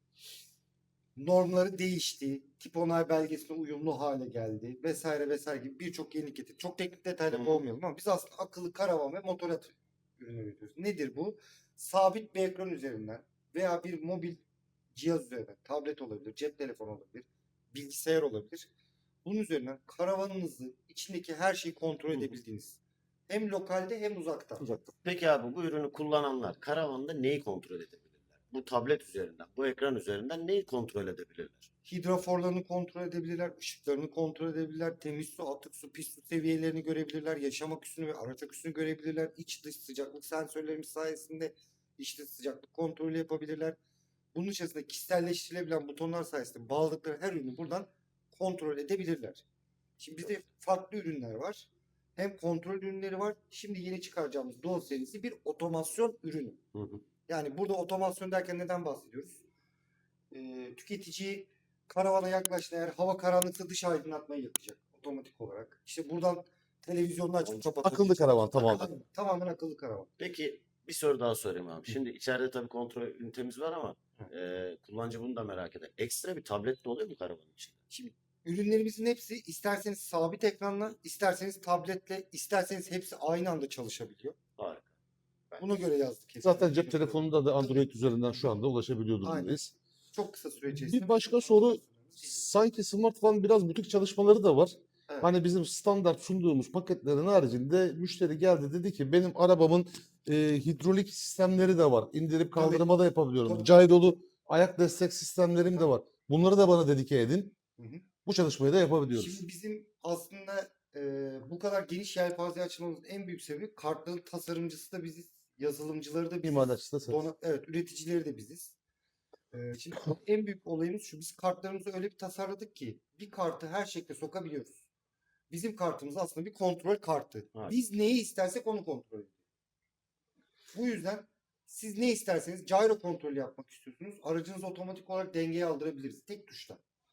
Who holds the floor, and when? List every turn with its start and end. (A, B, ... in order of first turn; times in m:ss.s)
0:01.2-0:14.4 A
0:07.3-0:07.6 B
0:14.9-0:18.7 A
0:19.2-0:24.7 A
0:24.6-0:24.9 C
0:25.0-0:31.6 B
0:31.8-0:43.8 A
0:44.3-0:49.4 A
0:50.0-0:56.6 A
0:56.7-0:57.0 B
0:57.3-0:59.4 A
1:00.3-1:10.1 A
1:07.8-1:08.9 C
1:10.2-1:17.7 B
1:17.9-1:24.4 A
1:24.6-1:24.8 B
1:25.6-1:27.9 A
1:26.4-1:29.7 C
1:29.2-1:32.4 A
1:30.7-1:47.5 C
1:42.6-1:42.8 A
1:43.4-1:43.7 A
1:47.8-1:48.0 A
1:48.2-1:49.4 C
1:49.1-1:58.7 A
1:56.4-1:57.2 C
1:59.5-2:04.8 A
2:05.5-2:09.3 A
2:10.7-2:16.8 A